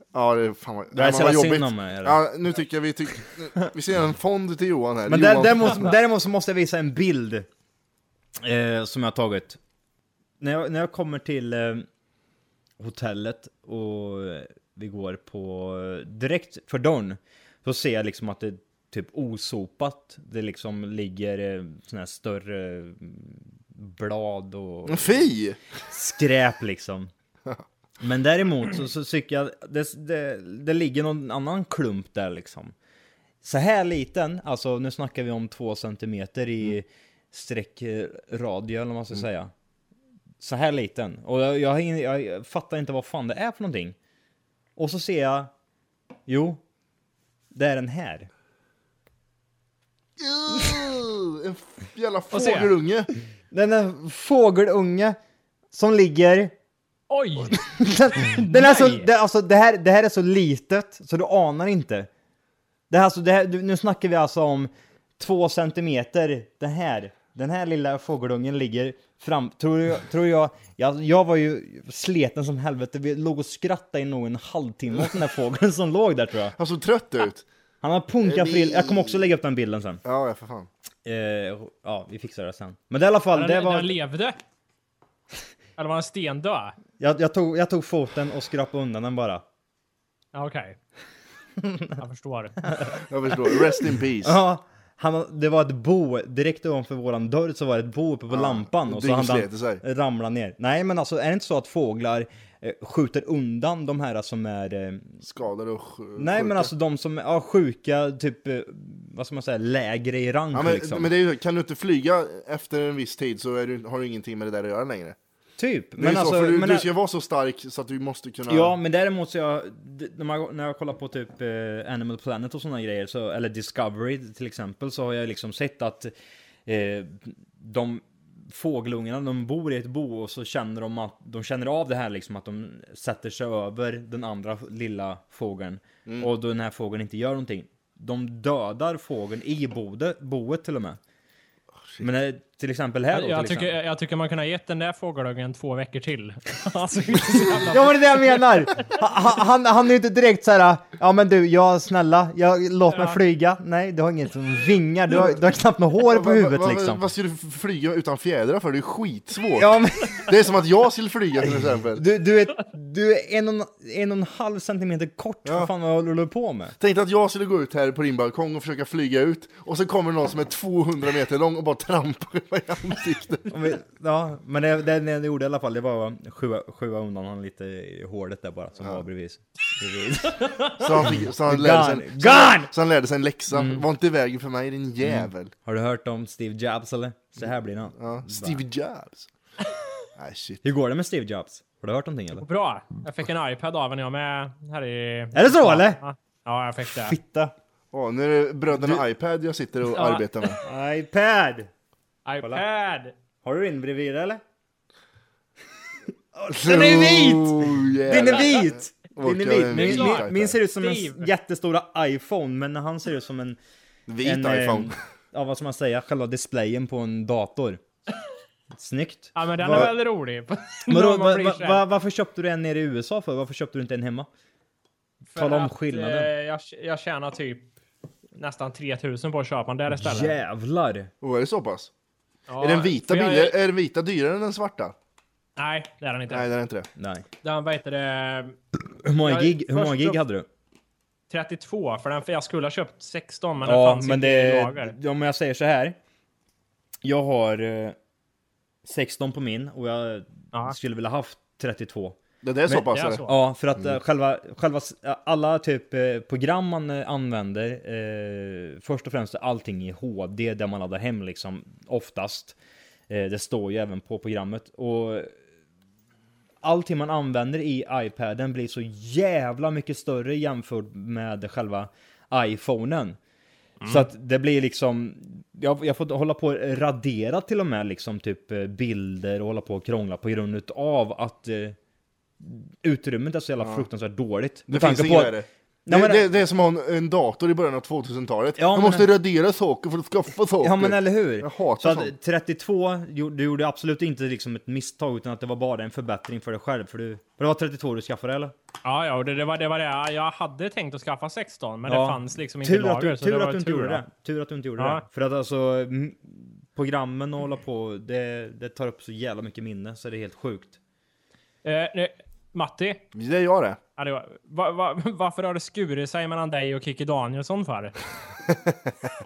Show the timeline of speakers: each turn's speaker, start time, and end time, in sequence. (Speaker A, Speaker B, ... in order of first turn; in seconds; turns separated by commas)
Speaker A: 0.1-5.9, Speaker B: 0.9-2.2, Speaker B: 5.1-7.5, Speaker B: 8.4-9.6, Speaker B: 10.4-11.9, Speaker B: 12.8-25.3, Speaker A: 24.9-25.6, Speaker B: 25.9-27.1, Speaker B: 28.0-32.7, Speaker B: 33.4-39.5, Speaker B: 40.4-44.0, Speaker B: 44.8-45.5, Speaker B: 46.3-46.6, Speaker B: 47.5-48.3, Speaker A: 50.2-53.1, Speaker C: 52.3-52.7, Speaker B: 53.5-55.1, Speaker B: 55.7-56.5, Speaker C: 57.1-59.1, Speaker B: 57.8-62.1, Speaker B: 62.9-64.7, Speaker B: 65.2-76.5, Speaker A: 76.6-77.5, Speaker B: 77.8-80.0, Speaker A: 78.2-79.2, Speaker A: 80.0-80.7, Speaker B: 81.0-83.9, Speaker C: 83.3-84.4, Speaker C: 85.8-86.8, Speaker B: 87.0-89.4, Speaker C: 90.3-90.8, Speaker C: 92.0-92.6, Speaker A: 93.1-94.4, Speaker B: 94.2-105.1, Speaker A: 98.3-99.8, Speaker A: 105.2-106.7, Speaker B: 106.2-111.1, Speaker A: 110.5-115.2, Speaker B: 115.6-116.9, Speaker A: 116.0-118.8, Speaker B: 118.5-126.1, Speaker B: 126.7-141.0, Speaker B: 142.0-143.7, Speaker C: 143.1-148.4, Speaker B: 147.1-157.0, Speaker C: 152.9-153.2, Speaker A: 155.1-155.4, Speaker A: 156.0-162.0, Speaker B: 159.6-160.3, Speaker B: 162.0-166.8, Speaker A: 166.8-173.5, Speaker B: 173.5-182.7, Speaker A: 180.8-185.5, Speaker B: 183.5-183.8, Speaker B: 185.0-188.6, Speaker A: 187.9-189.3, Speaker A: 190.2-190.6, Speaker B: 190.7-192.4, Speaker C: 192.4-197.2, Speaker B: 195.3-196.0, Speaker B: 196.9-197.5, Speaker A: 197.9-200.6, Speaker C: 199.9-200.3, Speaker B: 200.6-201.7, Speaker C: 202.3-203.1, Speaker B: 203.4-204.4, Speaker B: 206.4-213.6, Speaker A: 206.6-210.6, Speaker C: 209.7-210.2, Speaker C: 210.8-211.3, Speaker A: 214.1-215.0, Speaker B: 214.2-217.8, Speaker B: 218.8-219.9, Speaker C: 219.3-221.8, Speaker B: 220.9-224.3, Speaker B: 225.3-226.3, Speaker C: 225.3-227.7, Speaker C: 228.4-230.3, Speaker B: 229.9-231.1, Speaker A: 231.2-231.9, Speaker C: 232.5-233.6, Speaker A: 232.6-234.9, Speaker C: 235.6-236.5, Speaker A: 236.3-236.9, Speaker B: 237.0-237.3, Speaker C: 237.4-238.6, Speaker B: 239.0-240.5, Speaker C: 239.2-240.2, Speaker C: 241.3-244.9, Speaker B: 243.6-246.0, Speaker B: 247.0-248.0, Speaker B: 248.9-252.2, Speaker A: 252.4-253.3, Speaker B: 252.7-262.6, Speaker C: 252.9-253.3, Speaker B: 263.1-265.3, Speaker B: 266.6-273.2, Speaker B: 273.9-281.8, Speaker B: 282.4-285.3, Speaker A: 283.6-283.9, Speaker A: 284.7-292.1, Speaker B: 285.9-286.2, Speaker B: 288.6-289.1, Speaker B: 290.6-298.5, Speaker C: 298.8-304.0, Speaker B: 301.9-310.8, Speaker C: 304.8-305.0, Speaker C: 311.6-313.0, Speaker A: 313.1-313.8, Speaker C: 314.0-317.9, Speaker A: 318.5-318.9